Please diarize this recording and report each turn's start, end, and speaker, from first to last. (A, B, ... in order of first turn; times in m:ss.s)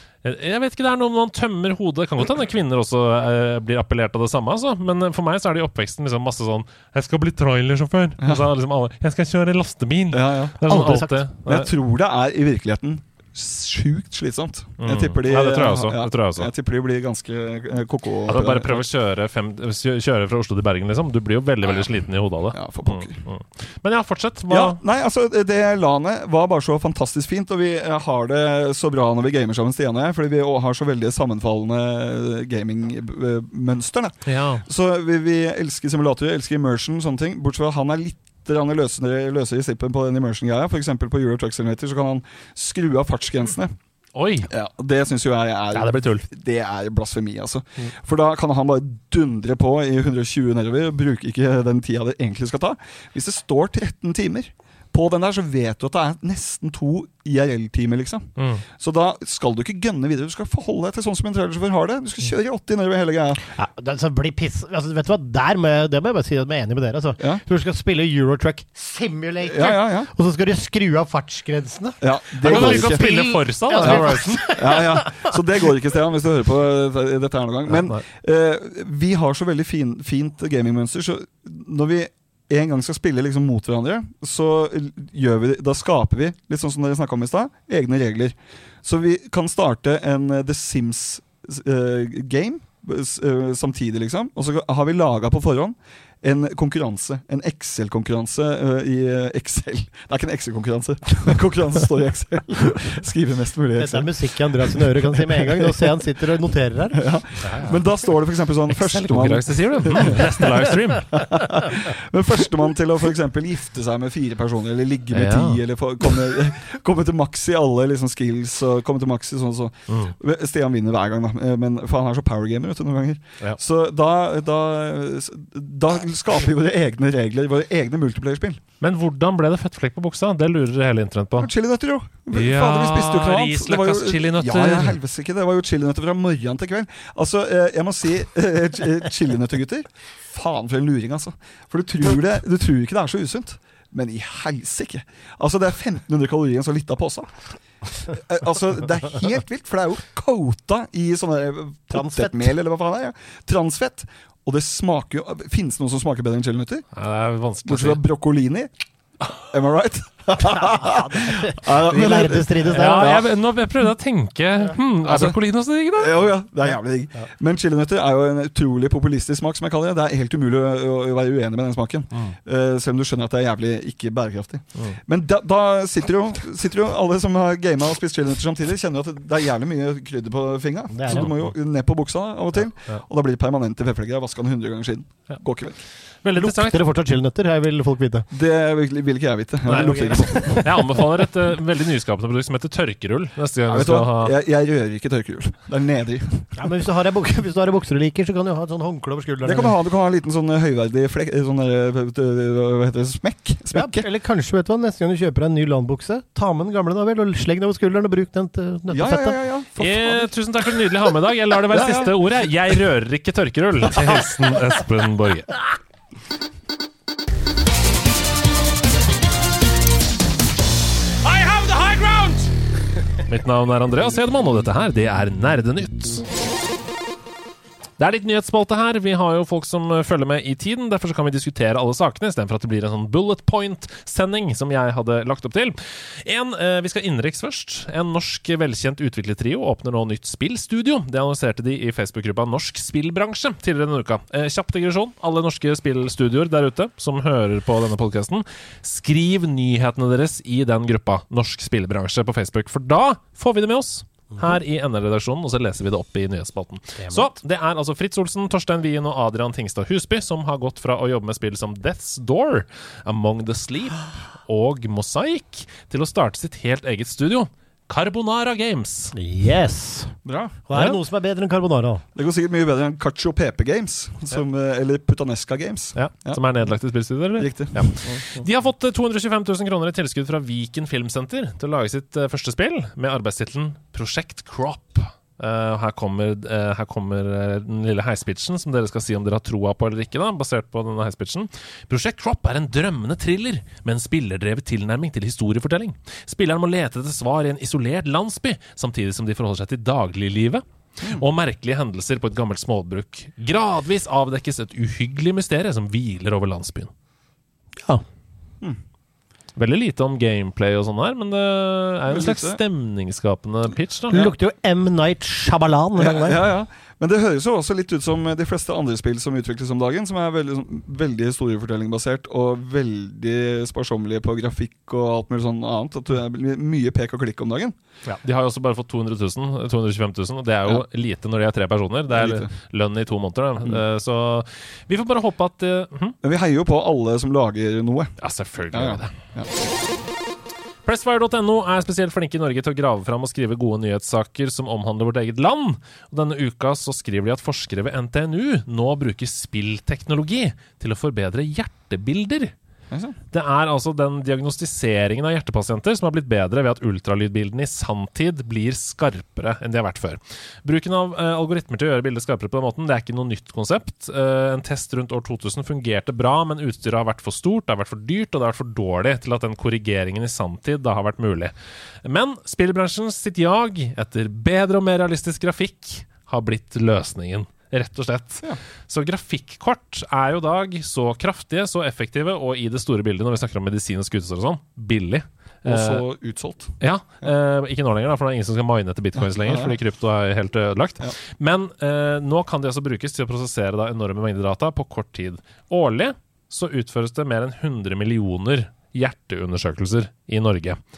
0:00.2-0:11.7 A
0:08.2-0:08.4 B
0:10.1-0:10.6 B
0:10.6-0:11.2 C
0:11.4-0:18.8 B
0:14.8-0:16.5 A
0:18.3-0:24.8 A
0:22.5-0:23.2 B
0:24.5-0:43.7 B
0:34.2-0:34.6 A
0:44.1-0:44.5 A
0:44.4-0:58.3 B
0:45.7-0:46.2 A
0:58.4-0:58.6 A
0:58.8-1:03.4 B
1:03.5-1:15.3 C
1:09.4-1:10.1 B
1:12.0-1:44.1 B
1:12.4-1:14.5 A
1:17.7-1:18.0 A
1:43.8-1:47.0 C
1:44.6-1:45.8 B
1:46.9-1:50.5 B
1:47.4-1:47.8 A
1:48.7-1:51.2 A
1:51.1-2:08.6 B
1:55.1-1:55.6 A
1:59.9-2:00.1 A
2:08.8-2:11.5 A
2:11.4-2:27.3 B
2:12.3-2:15.0 A
2:28.1-2:36.8 B
2:31.9-2:32.5 C
2:36.9-2:38.0 A
2:37.6-2:38.7 B
2:39.3-2:43.3 B
2:40.4-2:43.2 C
2:42.7-2:46.3 A
2:45.0-2:45.4 B
2:45.9-3:05.8 B
3:00.9-3:01.3 C
3:01.1-3:01.4 A
3:02.5-3:03.0 A
3:06.2-3:06.8 A
3:06.4-3:08.3 C
3:08.3-3:10.6 B
3:09.7-3:14.3 A
3:09.7-3:11.0 C
3:13.7-3:16.5 B
3:16.6-3:19.7 C
3:19.4-3:24.0 B
3:23.7-3:29.4 C
3:28.9-3:30.3 B
3:29.8-3:35.6 A
3:31.7-3:32.2 B
3:33.9-3:34.2 B
3:41.2-3:42.5 A
3:43.3-3:46.3 A
3:48.0-4:29.1 A
4:17.0-4:17.3 C
4:29.1-4:30.2 C
4:30.2-4:30.6 B
4:30.7-4:32.0 C
4:32.1-4:36.4 B
4:35.9-5:06.9 A
4:37.4-4:38.2 B
5:07.8-5:08.0 C
5:09.5-5:14.2 A
5:12.1-5:12.6 B
5:14.1-5:16.4 C
5:16.0-5:27.8 B
5:28.1-5:36.2 A
5:32.1-5:32.5 B
5:36.2-5:38.2 B
5:38.2-5:39.2 A
5:38.7-5:39.7 B
5:40.8-5:52.5 A
5:52.9-5:53.2 B
5:53.3-6:11.5 A
6:12.0-6:26.0 A
6:25.6-6:27.3 B
6:26.8-6:40.8 A
6:29.2-6:29.8 B